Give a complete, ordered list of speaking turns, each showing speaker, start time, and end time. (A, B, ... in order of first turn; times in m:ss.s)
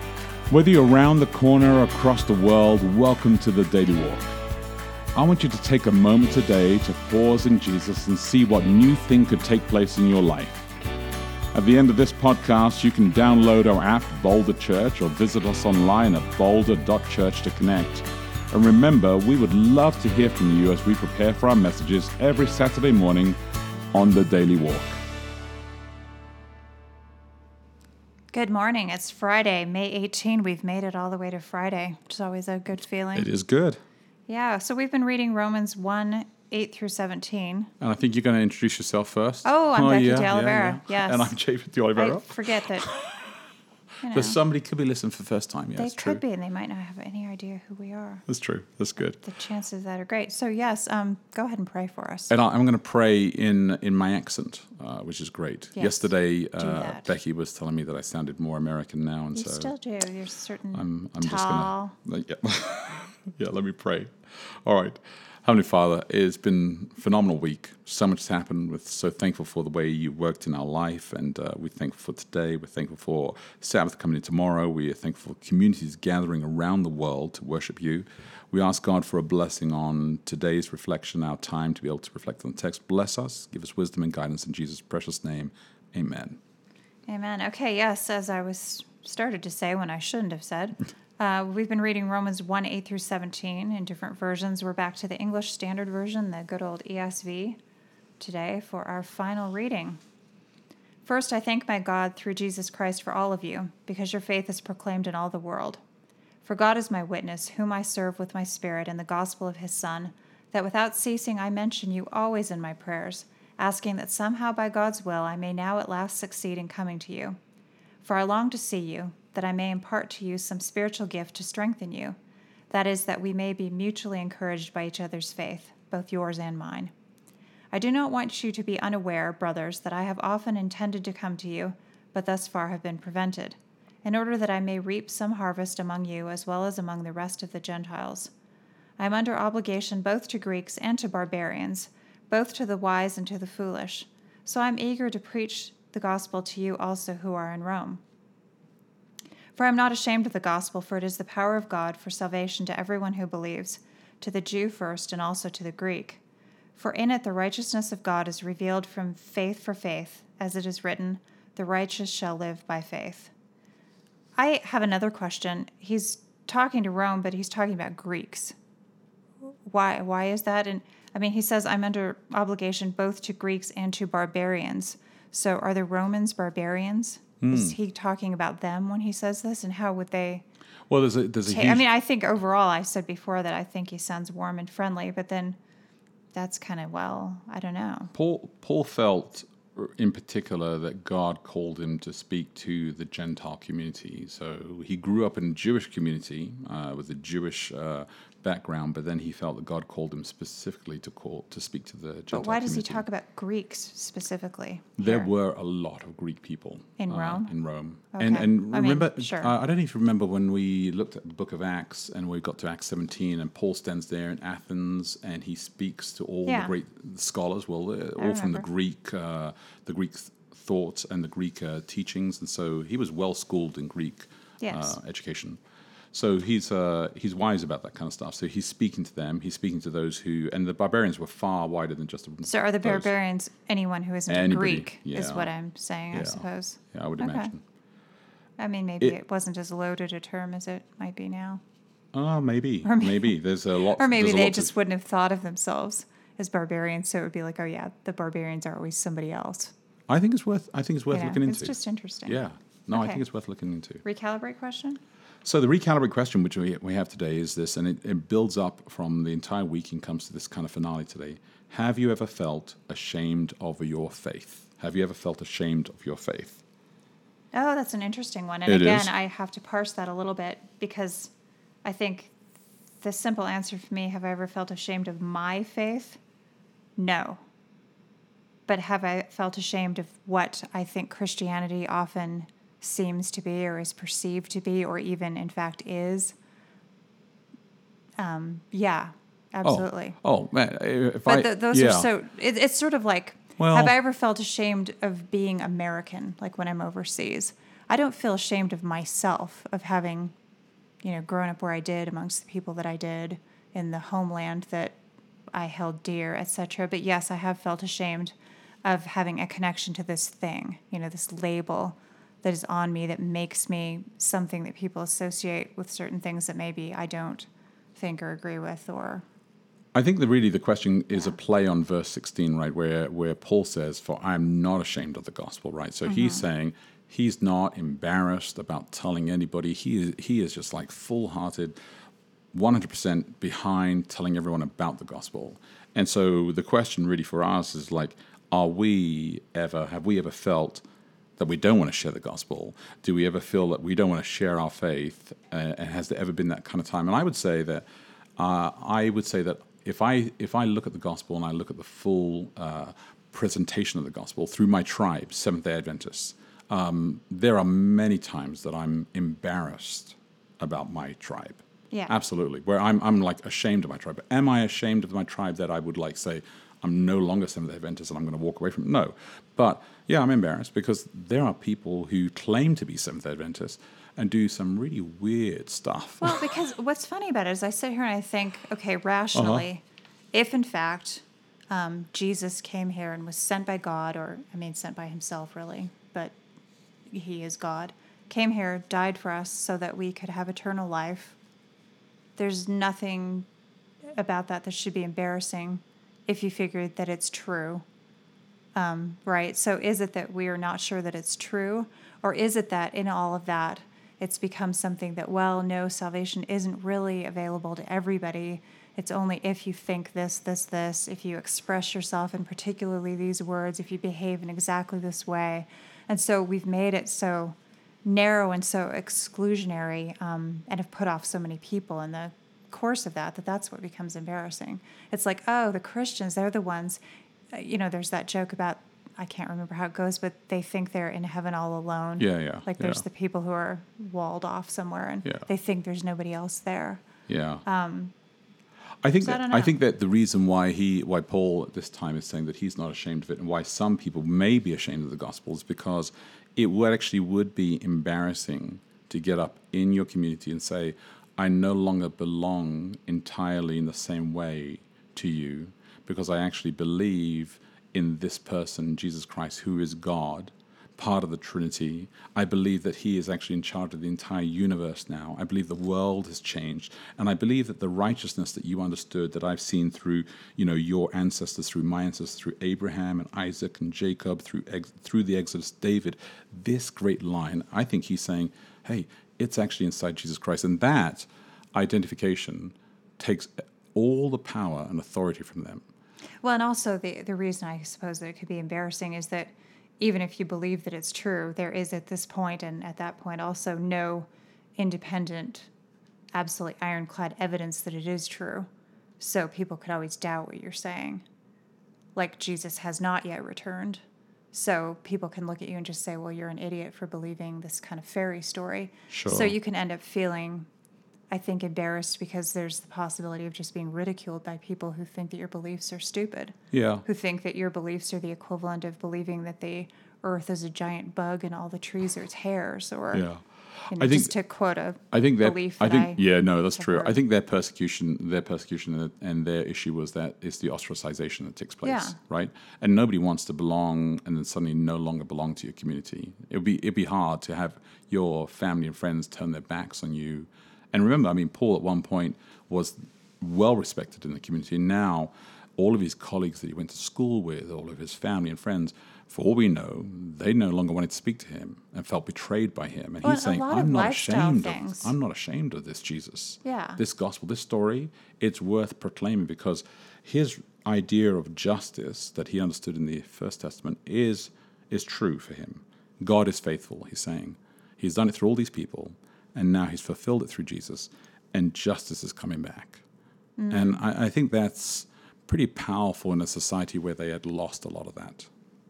0:00.5-0:04.2 A
0:05.1-0:10.7 A
0:11.5-0:23.4 A
0:23.9-0:25.0 A
0:28.3-0:33.3 B
0:33.1-0:33.8 A
0:34.3-0:37.7 B
0:37.8-0:43.2 A
0:39.4-0:41.3 B
0:41.9-0:42.9 B
0:44.0-0:44.4 B
0:44.1-0:46.2 A
0:45.8-0:48.2 B
0:48.3-0:49.2 A
0:49.2-0:52.3 B
0:52.3-0:59.7 A
0:55.7-0:57.1 B
0:59.3-1:01.9 B
1:00.7-1:26.4 A
1:27.1-1:37.6 B
1:38.2-1:40.0 B
1:41.0-1:45.8 B
1:46.4-1:57.4 B
1:58.0-2:02.2 B
2:02.7-2:06.9 B
2:07.7-2:18.3 B
2:19.0-2:28.0 B
2:29.5-2:36.2 B
2:36.8-2:43.3 B
2:44.4-2:48.6 B
2:49.5-3:00.4 B
2:57.4-2:57.8 A
3:00.9-3:01.8 A
3:01.4-3:05.6 B
3:06.3-3:08.1 B
3:08.1-3:23.0 A
3:22.3-3:25.3 B
3:25.0-3:45.6 A
3:27.0-3:27.5 B
3:28.1-3:29.5 B
3:36.4-3:36.7 B
3:38.2-3:38.7 B
3:44.6-3:45.0 B
3:46.1-3:53.1 A
3:52.4-3:57.5 B
3:54.3-3:55.5 A
3:56.1-3:57.6 A
3:58.6-4:01.6 B
4:02.1-4:04.7 A
4:02.8-4:03.4 B
4:03.9-4:09.7 B
4:10.1-4:14.0 A
4:11.1-4:12.4 B
4:12.9-4:13.2 B
4:14.0-4:15.0 B
4:15.4-4:26.6 A
4:27.5-4:31.3 B
4:28.7-4:29.1 A
4:31.8-4:32.4 B
4:33.0-4:36.2 B
4:37.0-4:37.4 B
4:38.7-4:46.3 B
4:48.2-4:50.2 B
4:49.6-4:52.1 A
4:51.2-5:00.3 B
4:53.6-4:53.9 A
5:01.0-5:05.0 B
5:05.5-5:19.2 B
5:19.9-5:31.8 A
5:26.0-5:26.4 B
5:32.5-5:40.8 A
5:41.4-5:47.8 A
5:48.4-6:16.5 A
6:16.2-6:26.4 B
6:19.3-6:19.6 A
6:27.1-6:31.4 B
6:32.4-6:33.5 B
6:34.1-6:37.8 B
6:38.7-7:17.0 B
7:12.2-7:13.0 A
7:17.3-7:17.6 A
7:17.6-7:18.1 B
7:19.0-8:05.8 A
7:19.2-7:19.8 B
8:06.4-8:15.7 B
8:16.3-8:18.7 B
8:19.2-8:21.2 B
8:22.1-8:30.7 B
8:29.1-8:29.6 A
8:31.3-8:43.2 B
8:36.7-8:37.0 A
8:43.1-8:44.4 A
8:43.9-8:47.1 B
8:45.0-9:33.0 A
8:51.8-8:52.2 B
9:13.2-9:15.1 B
9:16.6-9:17.0 B
9:33.6-9:34.0 B
9:33.7-9:38.5 A